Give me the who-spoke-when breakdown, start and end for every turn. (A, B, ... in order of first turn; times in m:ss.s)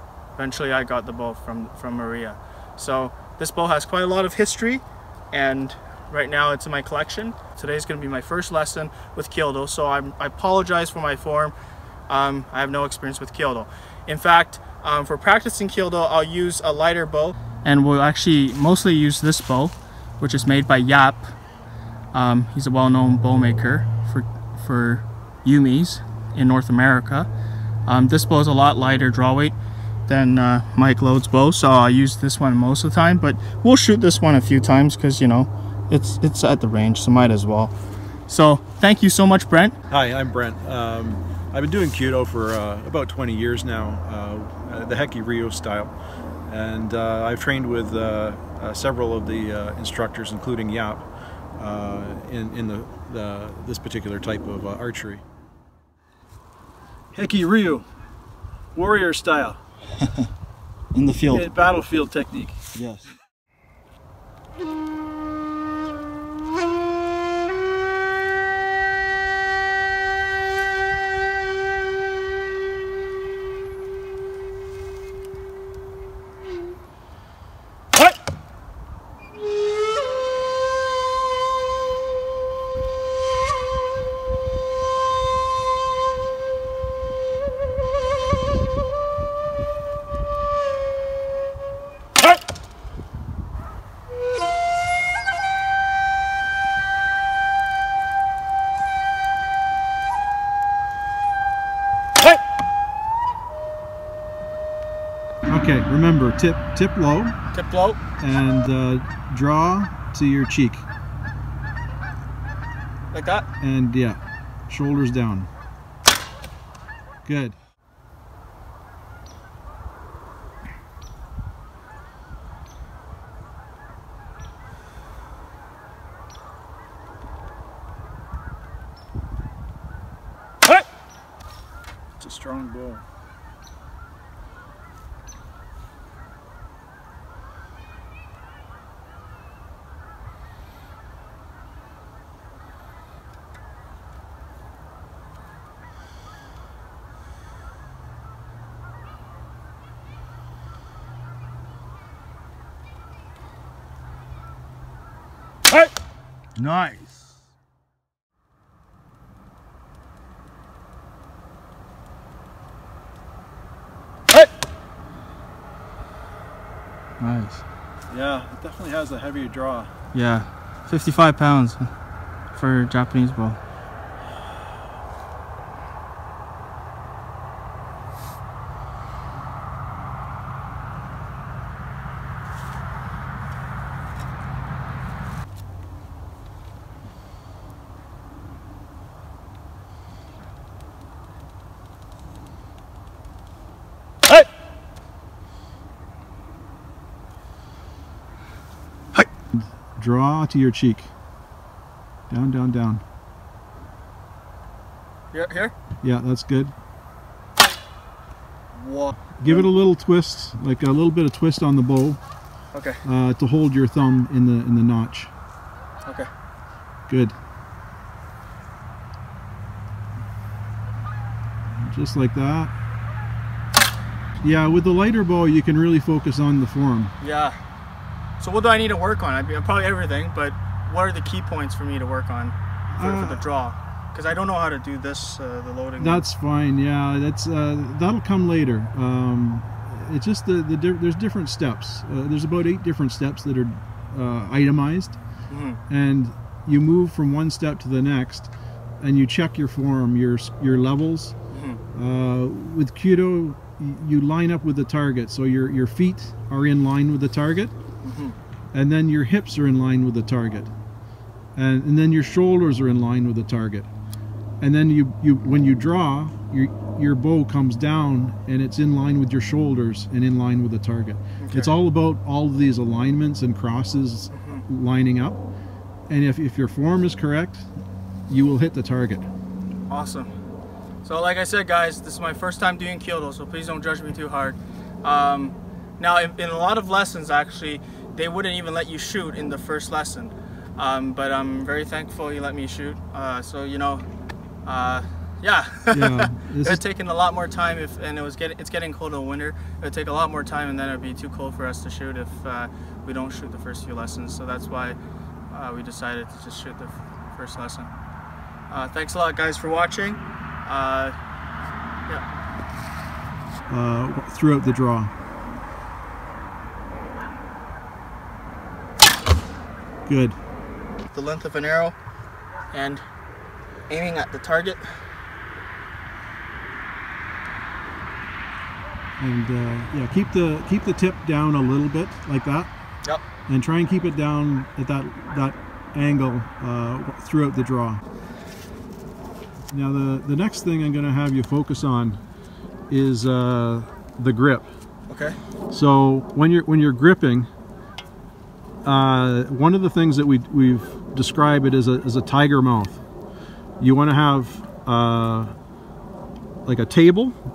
0:00.4-0:11.5 A
0:12.1-0:21.3 A
0:22.1-0:27.3 A
0:27.9-0:29.6 A
0:30.1-0:37.7 A
0:38.3-0:39.8 A
0:39.9-0:45.9 B
0:46.5-0:51.1 B
0:51.6-0:55.2 B
0:57.1-0:57.8 B
0:58.8-0:59.6 B
1:00.0-1:00.3 A
1:00.9-1:01.5 A
1:01.3-1:02.6 B
1:02.8-1:03.1 A
1:45.5-1:47.4 B
1:47.5-1:48.0 A
1:48.2-1:50.9 B
1:53.1-1:53.5 A
1:53.6-1:55.5 B
1:57.2-1:57.6 B
2:12.2-2:13.0 B
2:36.6-2:37.2 A
2:47.2-2:47.6 A
2:48.1-2:49.9 B
2:50.1-2:51.9 A
2:52.5-2:53.6 A
3:19.5-3:21.1 B
3:22.3-3:23.0 B
3:25.3-3:25.7 A
3:26.0-3:26.7 B
3:28.8-3:29.7 A
3:29.4-3:32.2 B
3:32.7-3:33.0 A
3:33.0-3:35.3 B
3:36.0-3:36.3 A
3:37.1-3:37.4 B
3:41.7-3:42.7 B
3:44.4-3:47.1 B
3:47.2-3:47.6 A
3:48.4-3:56.3 A
3:52.9-3:53.5 B
3:56.0-4:05.2 B
4:05.5-4:05.8 A
4:05.9-4:08.5 B
4:09.0-4:11.4 B
4:11.5-4:11.8 A
4:11.9-4:17.7 B
4:18.0-4:18.4 A
4:18.7-4:20.7 B
4:21.6-4:23.9 B
4:24.6-4:35.4 B
4:31.4-4:31.7 A
4:34.3-4:34.6 A
4:36.1-4:37.7 B
4:38.3-4:39.3 B
4:39.9-4:40.3 A
4:41.0-4:54.0 A
4:54.6-5:05.0 A
4:55.9-4:56.8 B
5:05.5-5:07.9 A
5:08.7-5:11.2 A
5:13.7-5:15.1 B
5:20.1-5:20.4 B
5:21.1-5:22.0 A
5:22.7-5:23.0 A
5:23.9-5:24.9 A
5:29.2-5:32.7 B
5:33.5-5:38.0 B
5:39.7-5:42.2 B
5:42.9-5:44.7 B
5:45.1-5:45.4 A
5:45.7-5:47.5 B
5:48.8-5:53.0 B
5:53.8-5:55.5 B
5:56.6-5:57.4 B